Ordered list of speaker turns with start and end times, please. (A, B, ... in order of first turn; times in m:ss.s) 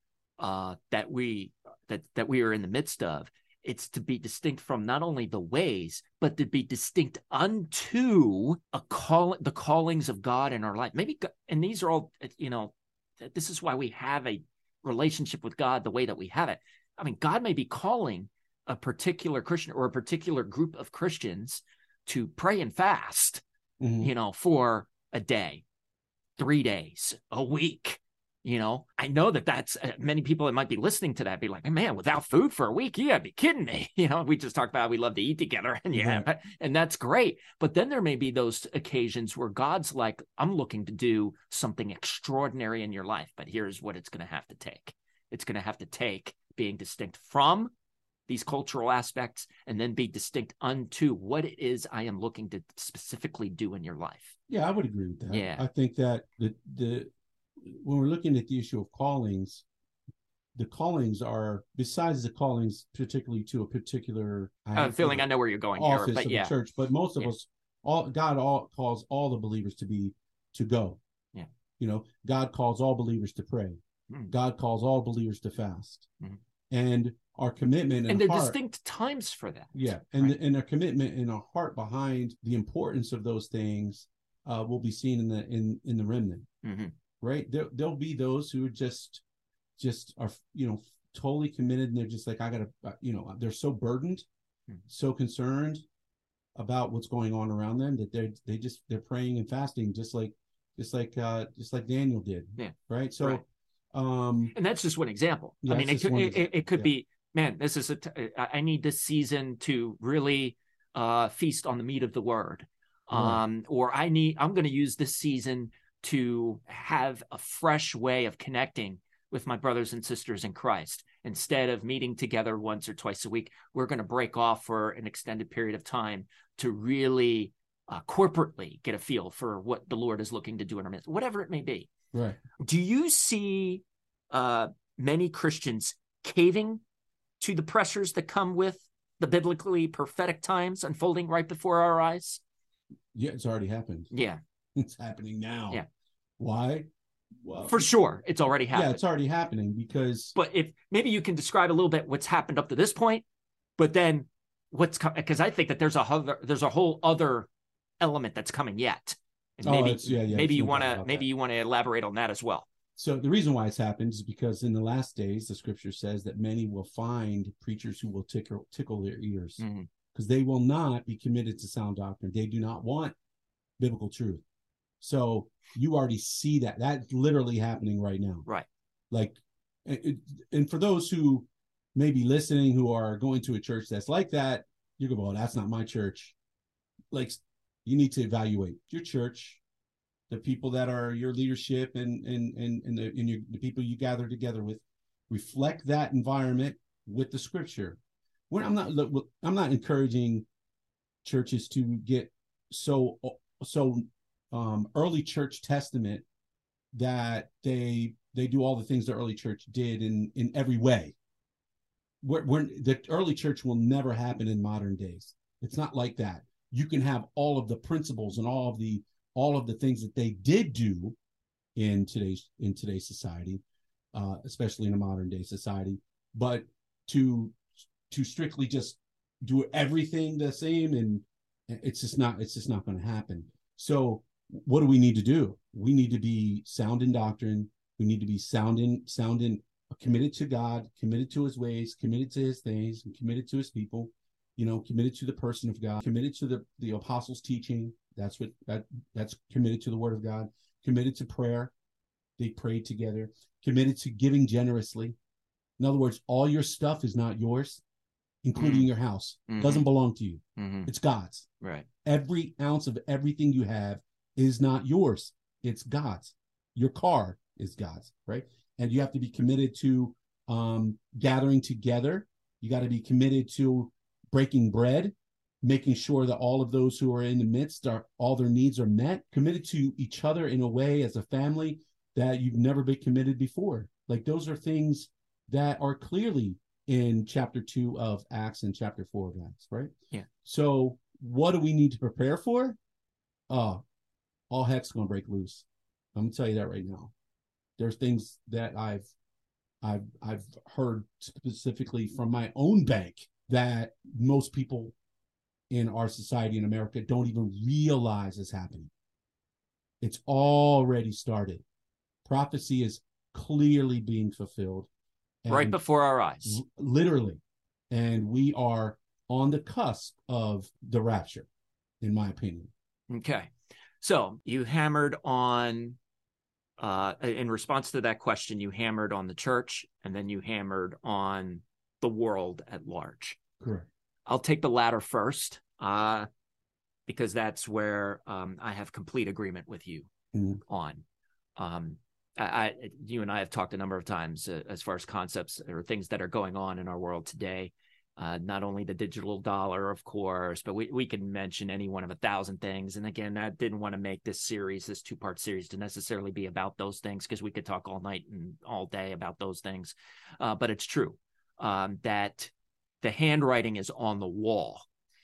0:00.4-0:23.4 A
0:23.8-0:24.1 B
0:24.0-0:25.6 A
0:26.4-0:47.7 A
0:35.9-0:36.3 B
0:48.3-0:54.4 A
0:54.5-0:59.6 B
0:55.3-0:55.7 A
1:00.6-1:11.0 B
1:04.8-1:06.5 A
1:11.8-1:13.8 B
1:14.3-1:16.1 B
1:16.7-1:18.6 B
1:18.1-1:20.4 A
1:19.7-1:26.5 B
1:26.6-1:26.9 A
1:27.2-1:29.2 B
1:29.8-1:34.3 B
1:34.9-1:35.8 B
1:36.6-1:44.5 B
1:42.6-1:43.4 A
1:44.6-2:11.9 A
1:45.6-1:46.9 B
1:53.1-1:53.4 B
2:12.1-2:12.4 B
2:12.6-2:16.8 A
2:17.4-2:22.4 A
2:23.1-2:24.1 B
2:24.1-2:24.4 A
2:24.8-2:25.8 B
2:26.4-2:26.9 B
2:27.4-2:27.9 B
2:27.6-2:29.0 A
2:28.7-2:30.3 B
2:30.4-2:33.2 A
2:33.8-2:37.5 A
2:38.0-2:42.7 A
2:39.6-2:41.3 B
2:43.0-2:49.6 B
2:49.6-2:49.9 A
2:50.1-2:53.2 B
2:53.8-2:54.4 B
2:55.0-2:58.5 B
2:59.1-3:06.4 B
3:07.1-3:09.6 B
3:10.3-3:18.0 B
3:18.5-3:20.5 B
3:21.2-3:26.2 B
3:26.9-3:31.2 B
3:32.2-3:41.2 B
3:41.8-3:43.6 B
3:44.1-3:47.6 B
3:48.1-4:11.7 B
4:12.4-4:15.2 B
4:15.8-4:17.8 B
4:18.4-4:21.5 B
4:18.6-4:18.9 A
4:19.5-4:19.9 A
4:20.6-4:20.9 A
4:21.6-4:21.9 A
4:22.0-4:49.9 B
4:50.4-4:52.8 B
4:53.5-4:53.8 B
4:54.5-4:57.1 B
4:57.8-4:59.1 B
4:59.8-5:05.0 B
5:05.7-5:08.9 B
5:10.0-5:11.6 B
5:12.2-5:14.9 B
5:15.4-5:15.8 B
5:15.5-5:16.6 A
5:16.4-5:21.5 B
5:22.0-5:22.7 B
5:23.1-5:26.0 A
5:26.8-5:33.4 A
5:33.6-5:33.9 B
5:34.3-5:36.3 A
5:37.1-5:40.1 A
5:40.3-5:40.6 B
5:40.7-5:41.0 A
5:41.6-6:04.9 A